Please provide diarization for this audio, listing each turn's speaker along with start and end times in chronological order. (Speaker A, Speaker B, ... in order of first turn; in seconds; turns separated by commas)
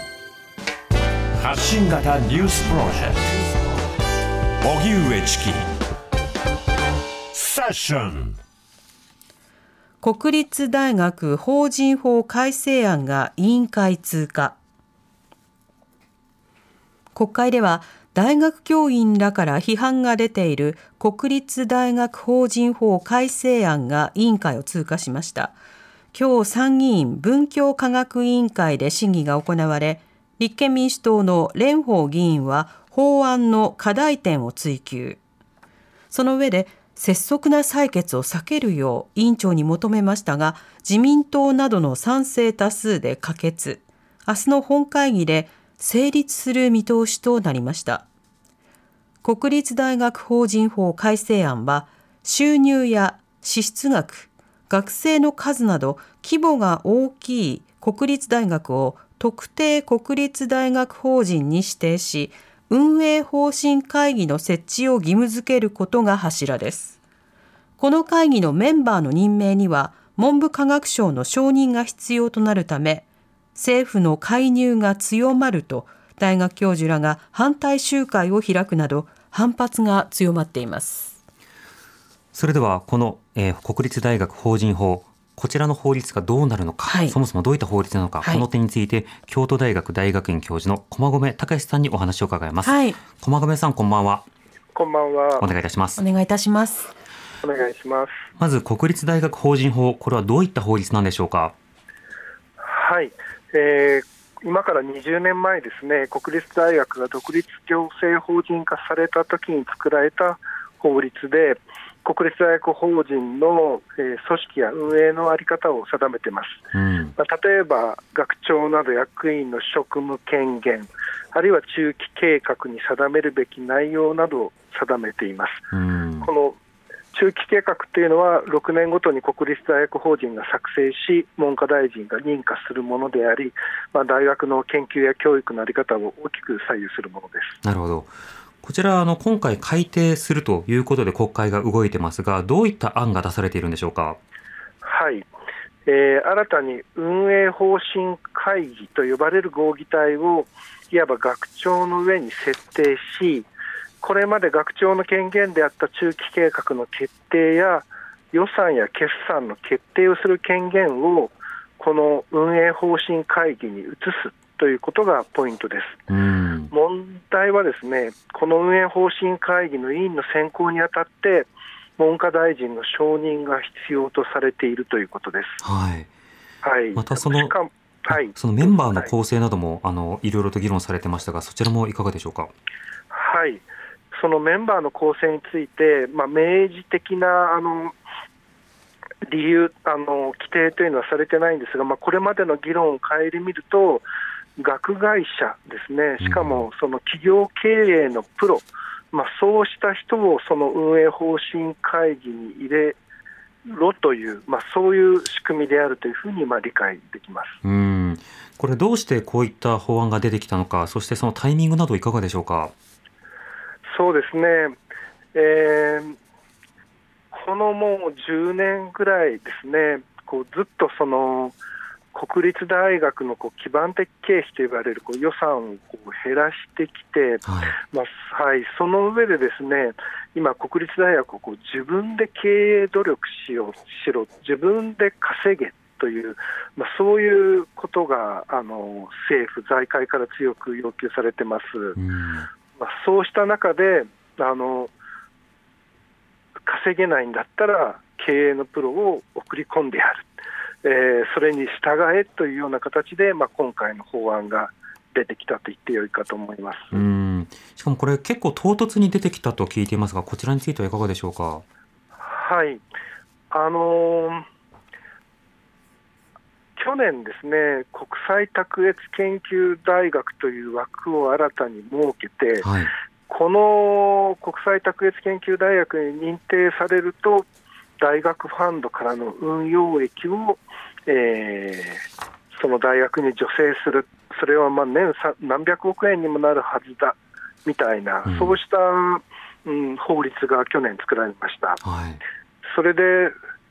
Speaker A: 1.4-3.2, Speaker A: 4.6-5.7, Speaker A: 7.3-8.4, Speaker B: 10.0-14.6, Speaker B: 17.1-25.6, Speaker B: 26.1-35.2, Speaker B: 36.1-48.1, Speaker B: 49.2-67.0, Speaker B: 67.8-81.2, Speaker C: 82.3-94.3, Speaker B: 86.8-87.2, Speaker B: 92.6-93.0, Speaker D: 94.8-95.4, Speaker C: 95.4-96.0, Speaker B: 96.0-96.9, Speaker D: 97.4-98.2, Speaker C: 98.4-101.5, Speaker D: 102.6-116.6, Speaker C: 116.7-117.1, Speaker D: 117.2-125.7, Speaker C: 125.7-126.3, Speaker D: 126.2-126.6, Speaker D: 127.1-137.6, Speaker C: 137.6-144.2, Speaker D: 144.8-145.3, Speaker D: 145.9-153.5, Speaker D: 154.0-166.1, Speaker C: 166.1-166.7, Speaker D: 166.7-175.6, Speaker C: 175.6-176.1, Speaker D: 176.6-179.1, Speaker C: 176.9-177.6, Speaker C: 178.1-182.5, Speaker D: 183.1-187.9, Speaker D: 189.2-194.1, Speaker D: 194.6-203.0, Speaker C: 196.2-196.7, Speaker D: 203.7-207.6, Speaker C: 207.6-212.7, Speaker D: 213.9-214.8, Speaker D: 215.3-216.2, Speaker D: 217.3-221.6, Speaker D: 222.1-242.0, Speaker C: 227.4-227.8, Speaker C: 242.0-242.5, Speaker D: 242.8-244.9, Speaker D: 246.7-250.3, Speaker D: 250.8-257.0, Speaker C: 256.9-261.6, Speaker D: 262.2-262.8, Speaker D: 263.5-264.5, Speaker D: 266.8-272.7, Speaker C: 272.6-272.9, Speaker D: 273.3-277.5, Speaker D: 278.0-291.8, Speaker C: 288.3-288.6, Speaker C: 291.8-292.2, Speaker D: 292.6-293.4